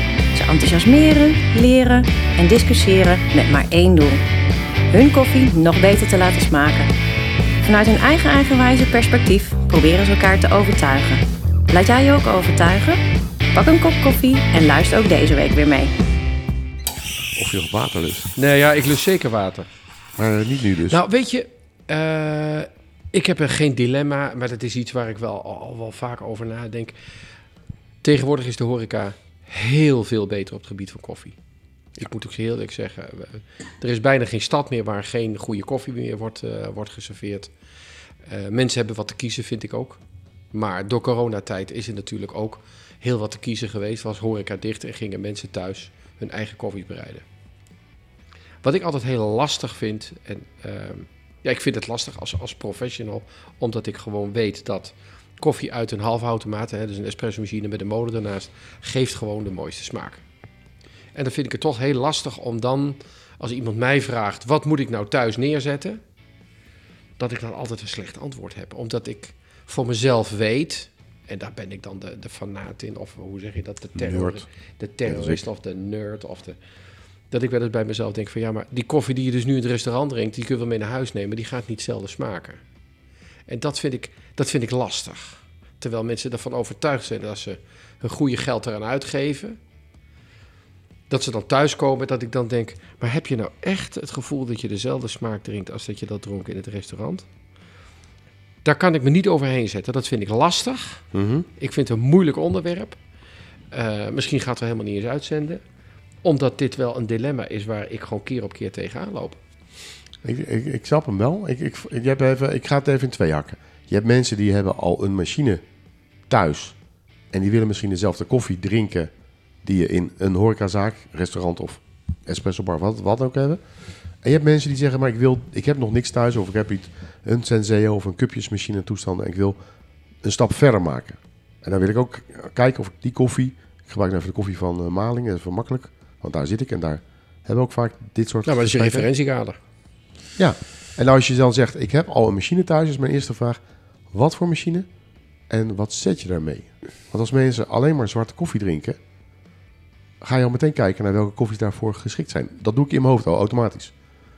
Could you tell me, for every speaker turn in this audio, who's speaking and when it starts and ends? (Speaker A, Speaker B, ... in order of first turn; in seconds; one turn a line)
Speaker A: 0.3-4.2
Speaker A: 4.9-6.9
Speaker A: 7.6-13.0
Speaker A: 13.5-15.9
Speaker B: 17.3-18.3
Speaker C: 18.4-19.7
Speaker B: 20.2-21.0
Speaker C: 20.9-26.9
Speaker C: 28.0-31.4
Speaker C: 31.9-37.5
Speaker C: 38.2-40.0
Speaker C: 40.5-47.2
Speaker C: 48.6-60.2
Speaker C: 61.1-66.0
Speaker C: 67.2-76.6
Speaker B: 74.0-74.5
Speaker B: 75.0-75.4
Speaker C: 77.3-82.6
Speaker C: 83.5-89.6
Speaker C: 91.1-97.3
Speaker C: 98.6-103.0
Speaker B: 101.1-101.5
Speaker C: 103.7-105.6
Speaker C: 106.2-109.4
Speaker B: 110.2-115.6
Speaker B: 116.3-116.8
Speaker B: 117.3-119.1
Speaker B: 119.6-123.6
Speaker B: 124.2-129.6
Speaker B: 130.2-139.1
Speaker C: 138.4-139.6
Speaker B: 140.4-144.9
Speaker B: 145.5-149.0
Speaker B: 150.2-153.9